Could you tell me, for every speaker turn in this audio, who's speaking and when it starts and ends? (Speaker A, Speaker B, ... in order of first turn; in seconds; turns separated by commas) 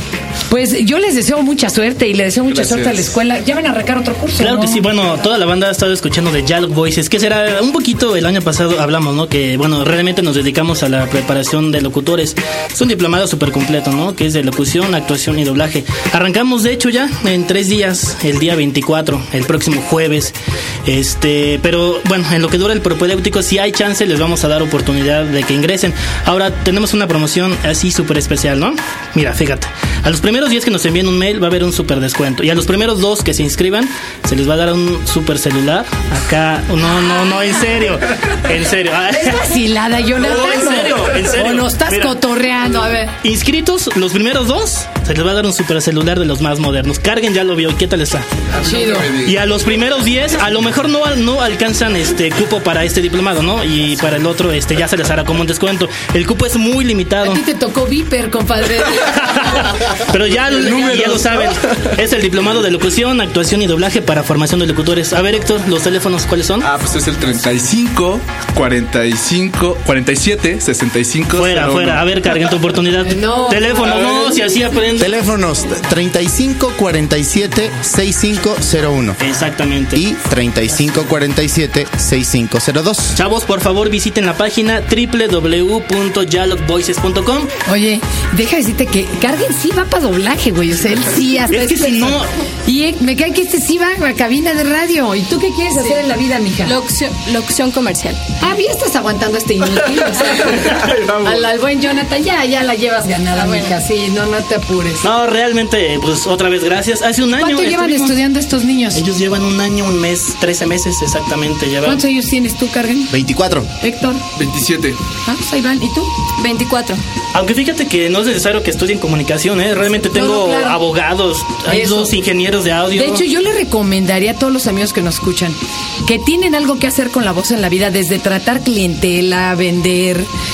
Speaker A: 0.5-4.8, Speaker B: 2.5-3.1, Speaker C: 4.4-39.5, Speaker A: 39.1-43.1, Speaker C: 40.2-42.2, Speaker C: 43.2-48.3, Speaker B: 48.5-49.4, Speaker A: 48.6-49.1, Speaker C: 49.2-57.4, Speaker A: 57.2-59.7, Speaker C: 59.1-66.7, Speaker B: 60.6-61.6, Speaker B: 66.6-72.0, Speaker C: 71.3-75.2, Speaker A: 73.0-74.4, Speaker D: 75.0-79.2, Speaker C: 79.2-80.0, Speaker D: 79.9-83.2, Speaker C: 83.1-87.5, Speaker A: 87.7-96.8, Speaker C: 91.5-92.3, Speaker E: 95.7-96.0, Speaker E: 96.7-98.2, Speaker A: 98.4-105.1, Speaker B: 100.5-101.5, Speaker E: 103.3-103.8, Speaker C: 105.0-108.2, Speaker A: 107.3-109.0, Speaker C: 108.9-112.0, Speaker A: 111.8-113.1, Speaker D: 113.1-113.7, Speaker A: 113.8-114.2, Speaker B: 114.3-115.0, Speaker A: 115.2-116.3, Speaker E: 116.4-117.0, Speaker C: 117.3-123.2, Speaker A: 120.1-120.8, Speaker A: 121.7-122.2, Speaker A: 122.9-130.3